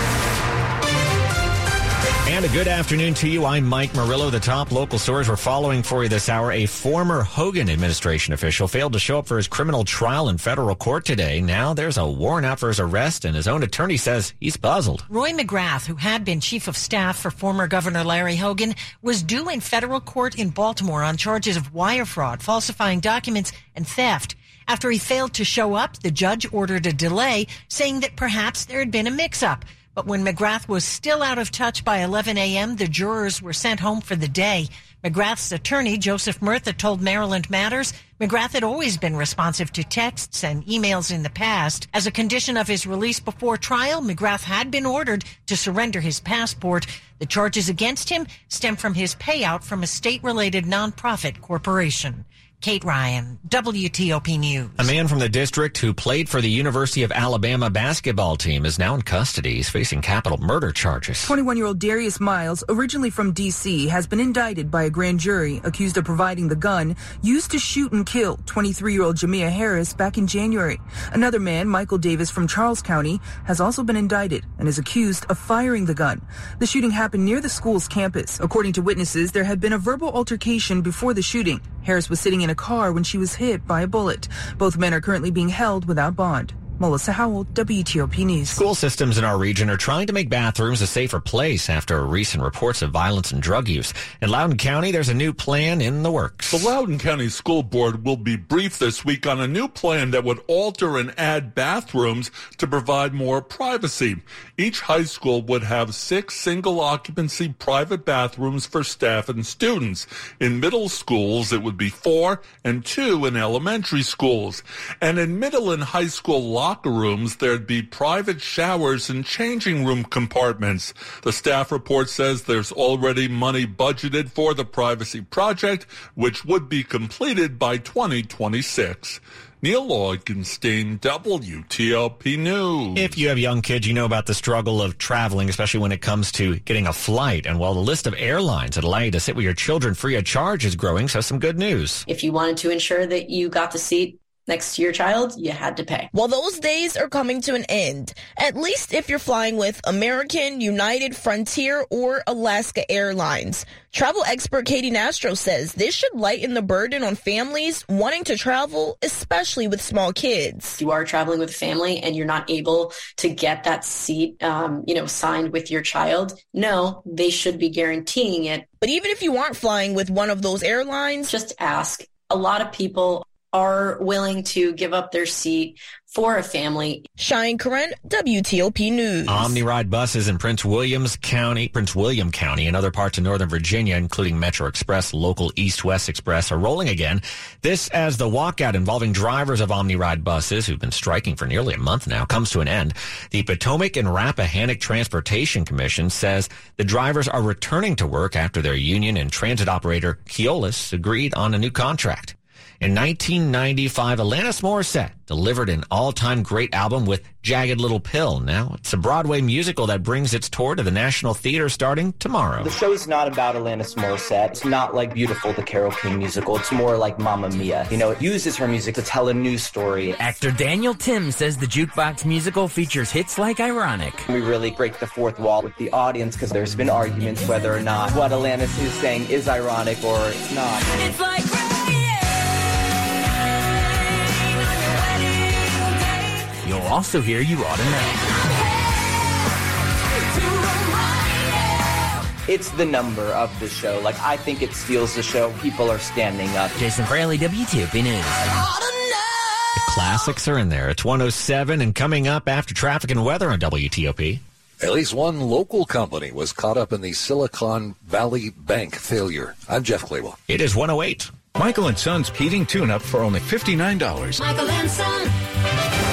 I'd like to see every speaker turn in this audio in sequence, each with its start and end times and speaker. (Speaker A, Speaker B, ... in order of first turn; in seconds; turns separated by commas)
Speaker A: 2.3-15.1, Speaker B: 15.1-54.9, Speaker A: 54.8-61.3, Speaker C: 61.2-88.6, Speaker A: 88.5-96.7, Speaker D: 96.5-133.2, Speaker A: 133.0-142.1, Speaker E: 142.1-146.1, Speaker F: 146.1-160.8, Speaker E: 160.8-168.7, Speaker F: 168.8-171.3, Speaker E: 171.3-177.1, Speaker F: 177.2-179.6, Speaker A: 179.3-212.7, Speaker G: 212.6-220.2, Speaker H: 220.3-224.2, Speaker G: 224.3-231.1, Speaker G: 242.5-246.8, Speaker H: 246.9-248.3, Speaker A: 249.8-254.4, Speaker I: 254.8-260.4, Speaker A: 260.5-261.3, Speaker J: 261.6-264.4